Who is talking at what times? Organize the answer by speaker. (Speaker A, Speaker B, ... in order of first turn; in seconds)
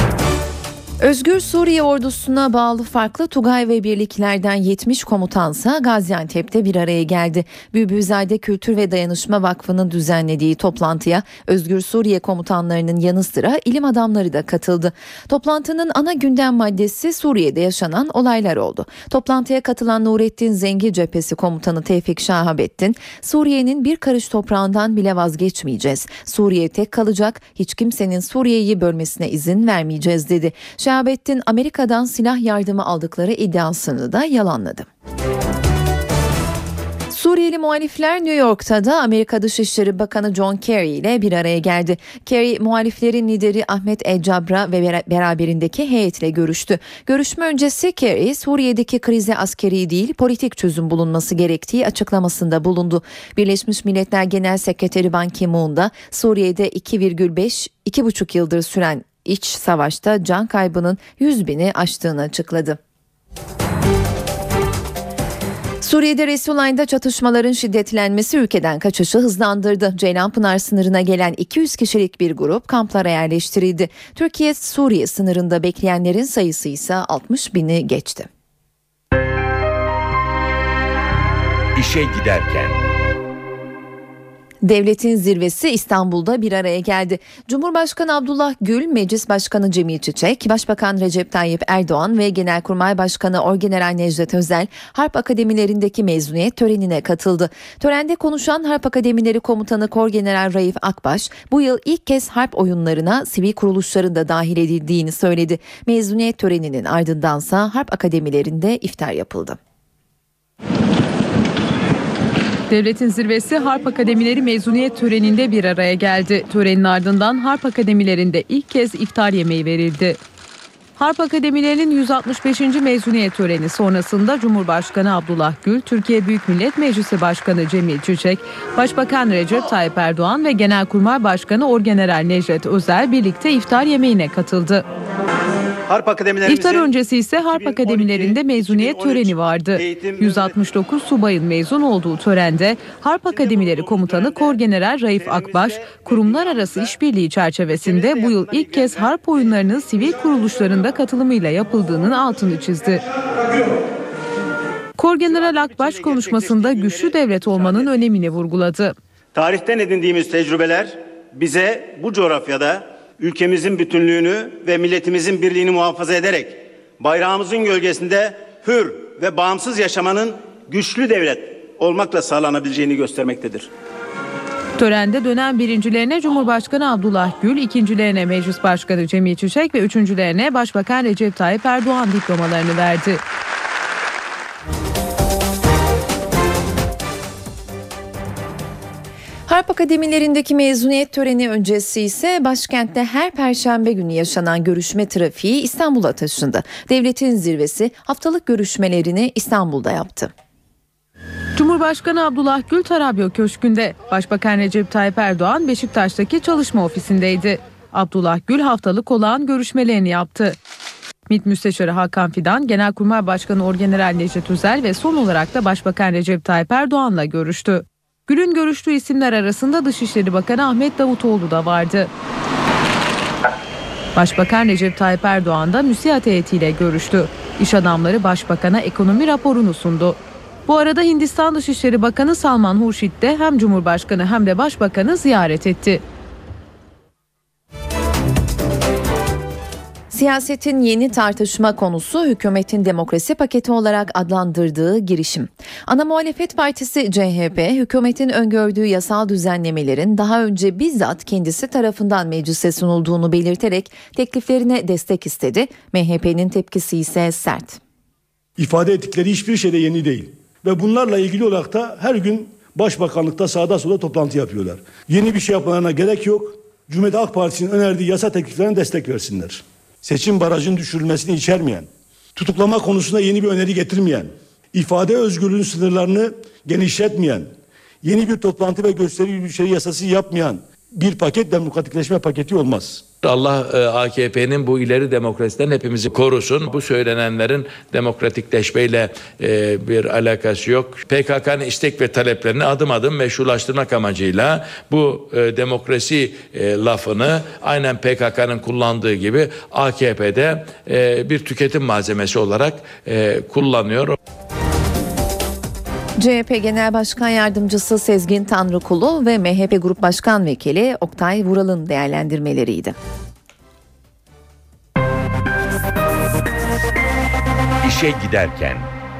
Speaker A: 1.0-34.9, 37.1-62.8, 65.8-78.3, 84.6-109.6, 189.5-200.3, 240.1-257.8, 306.2-313.0
Speaker B: 81.8-82.8, 317.8-318.9
Speaker C: 112.7-120.2, 121.0-134.8, 136.5-153.0, 155.0-158.9, 174.8-183.2, 201.6-210.6, 211.3-222.1, 224.2-236.0
Speaker D: 135.9-140.6, 143.3-144.6, 145.2-146.9, 147.8-149.0, 155.2-158.0, 159.3-173.7
Speaker E: 258.6-277.5, 278.0-283.0
Speaker F: 283.2-304.1